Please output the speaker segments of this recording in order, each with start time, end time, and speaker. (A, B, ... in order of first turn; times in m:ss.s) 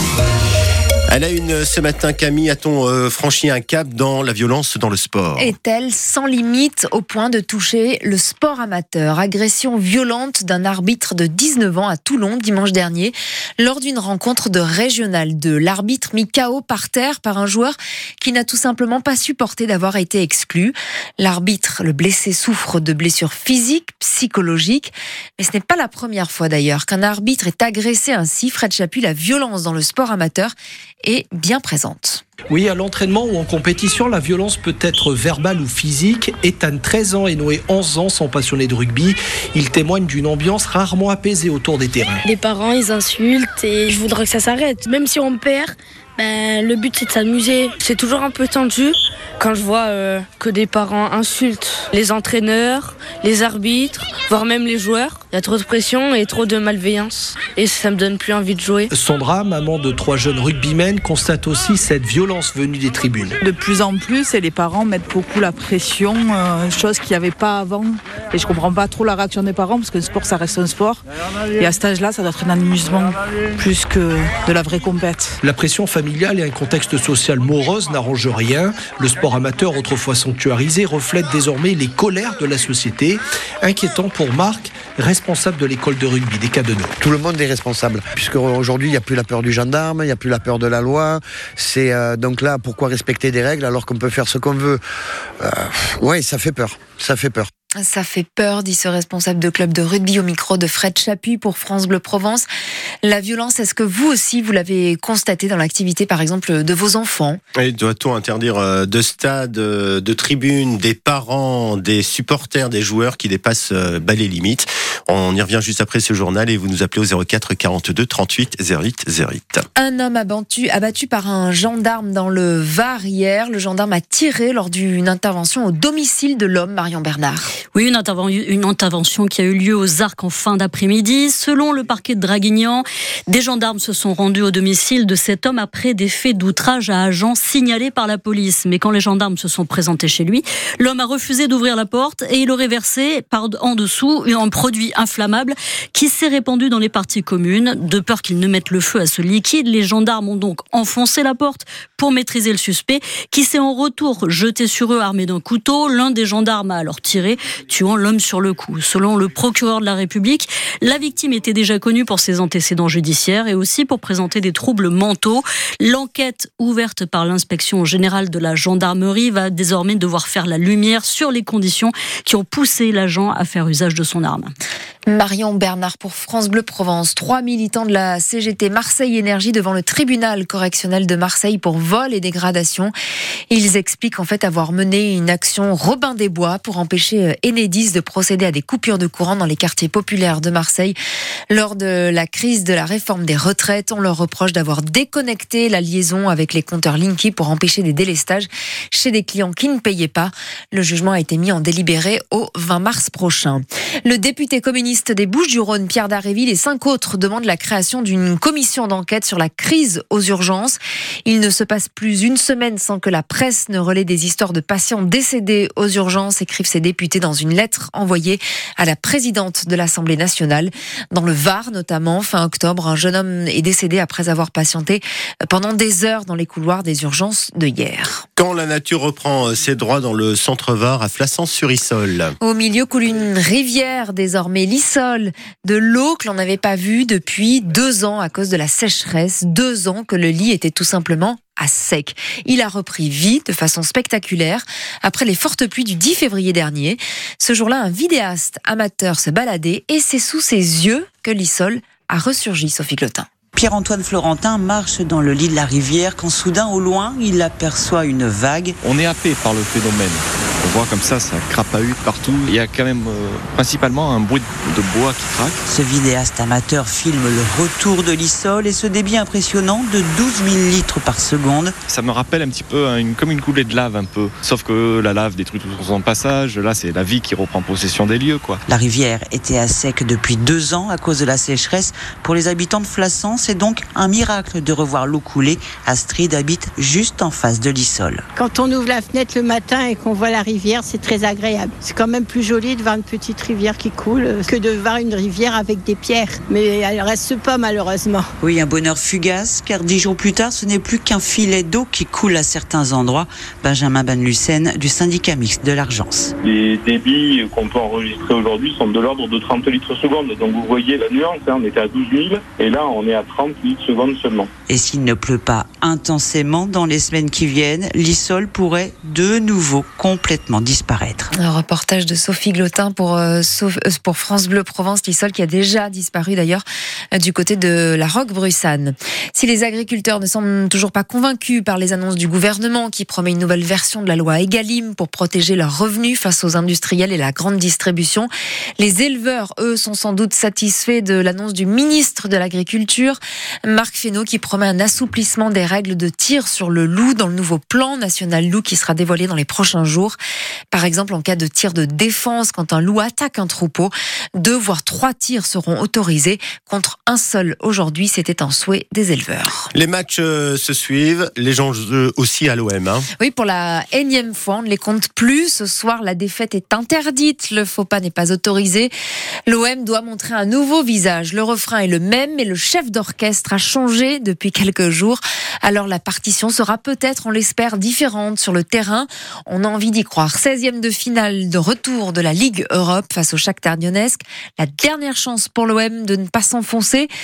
0:01.1-0:05.5 A
0:05.4-0:32.2 B
0:32.5-0:42.2 C
0:42.2-0:58.9 D
0:58.9-1:03.4 C
1:03.4-1:11.0 E
1:11.6-1:15.4 E
1:15.4-1:26.9 C
1:27.0-1:34.8 F
1:35.4-1:37.5 F
1:37.8-1:42.4 B
1:43.0-1:47.4 B
1:47.6-1:59.6 A
1:59.8-2:07.5 B
2:07.7-2:54.5 G
2:55.1-3:02.9 B
3:03.5-3:11.0 B
3:11.5-3:48.2 B
3:48.4-3:52.3 A
3:52.4-4:13.3 B
4:13.6-4:18.8 H
4:18.8-4:25.6 I
4:25.7-4:31.7 H
4:31.9-4:38.6 I
4:38.7-4:48.2 H
4:48.4-4:58.2 J
4:58.4-5:06.3 H
5:06.4-5:14.5 K
5:14.7-5:21.3 H
5:21.4-5:50.2 B
5:50.7-5:59.7 B
5:59.7-6:03.0 A
6:03.2-6:08.9 B
6:09.5-6:27.1 B